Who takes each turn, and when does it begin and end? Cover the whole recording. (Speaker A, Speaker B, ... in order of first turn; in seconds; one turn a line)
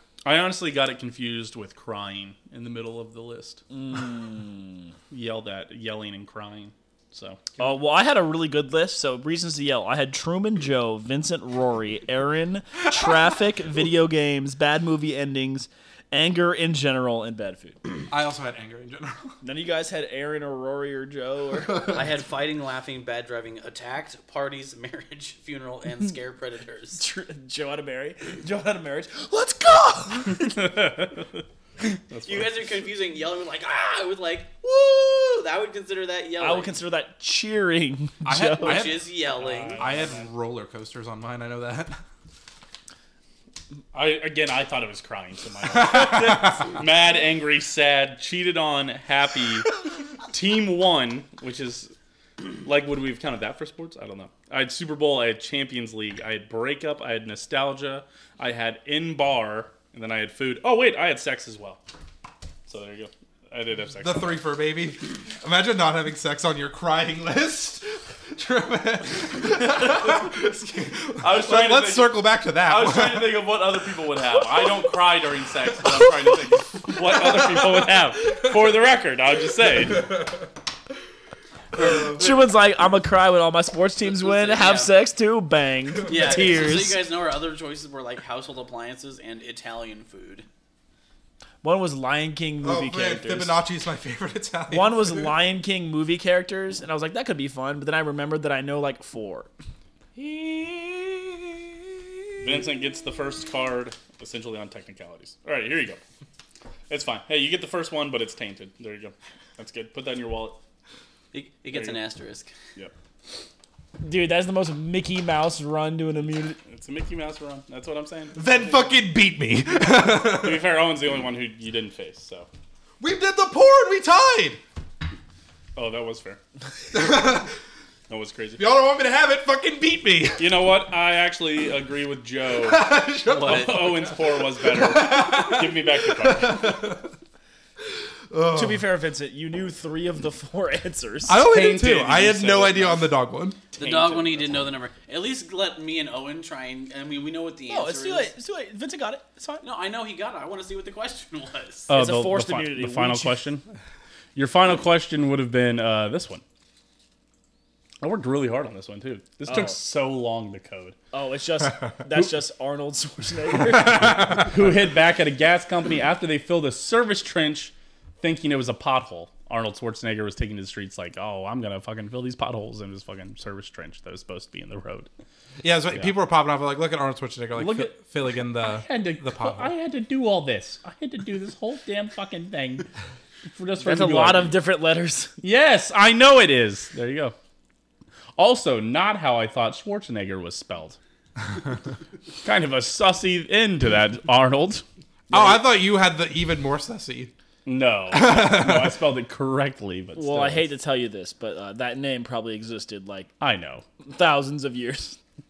Speaker A: 0.2-3.6
Speaker B: 3.7-4.9
Speaker A: 5.1-7.4
Speaker B: 7.6-17.8
Speaker C: 18.1-19.4
Speaker B: 19.4-22.0
Speaker D: 21.8-27.0
Speaker B: 26.9-30.5
Speaker A: 30.4-31.4
Speaker A: 32.0-32.6
Speaker D: 32.2-36.7
Speaker B: 36.4-38.9
Speaker C: 38.2-39.2
Speaker D: 38.6-40.0
Speaker A: 39.3-40.3
Speaker C: 39.7-42.0
Speaker A: 43.9-51.9
Speaker A: 52.6-61.8
Speaker A: 62.7-64.4
Speaker C: 64.0-73.4
Speaker A: 69.8-70.1
Speaker A: 71.2-80.1
Speaker C: 80.0-80.2
Speaker B: 81.9-87.0
Speaker D: 84.0-85.0
Speaker D: 86.0-90.5
Speaker B: 91.6-93.6
Speaker C: 92.6-95.3
Speaker B: 94.7-99.5
Speaker A: 102.4-106.0
Speaker A: 106.9-110.6
Speaker D: 111.3-112.5
Speaker A: 111.7-112.0
Speaker B: 114.0-116.6
Speaker A: 116.6-119.0
Speaker C: 118.3-120.7
Speaker A: 119.9-122.5
Speaker C: 123.0-124.6
Speaker A: 125.8-126.4
Speaker C: 126.9-127.6
Speaker A: 128.1-128.6
Speaker C: 128.6-130.6
Speaker A: 130.4-136.9
Speaker C: 132.6-137.1
Speaker D: 133.3-134.1
Speaker C: 138.3-138.9
Speaker B: 138.5-141.4
Speaker C: 141.3-143.6
Speaker A: 141.3-143.2
Speaker D: 143.8-148.3
Speaker A: 143.8-144.7
Speaker B: 147.7-149.6
Speaker D: 149.6-151.9
Speaker A: 151.9-153.6
Speaker B: 151.9-153.4
Speaker A: 154.3-156.4
Speaker A: 158.0-160.9
Speaker B: 159.4-159.8
Speaker B: 161.1-164.7
Speaker C: 163.9-164.2
Speaker A: 164.3-175.1
Speaker C: 175.6-179.7
Speaker A: 177.6-178.0
Speaker A: 178.5-182.9
Speaker A: 183.5-184.6
Speaker B: 183.8-185.4
Speaker A: 185.4-187.3
Speaker A: 188.4-191.0
Speaker A: 192.4-194.8
Speaker C: 195.3-197.3
Speaker A: 197.6-200.7
Speaker C: 198.1-199.0
Speaker B: 200.1-203.3
Speaker A: 203.4-203.8
Speaker B: 204.0-205.2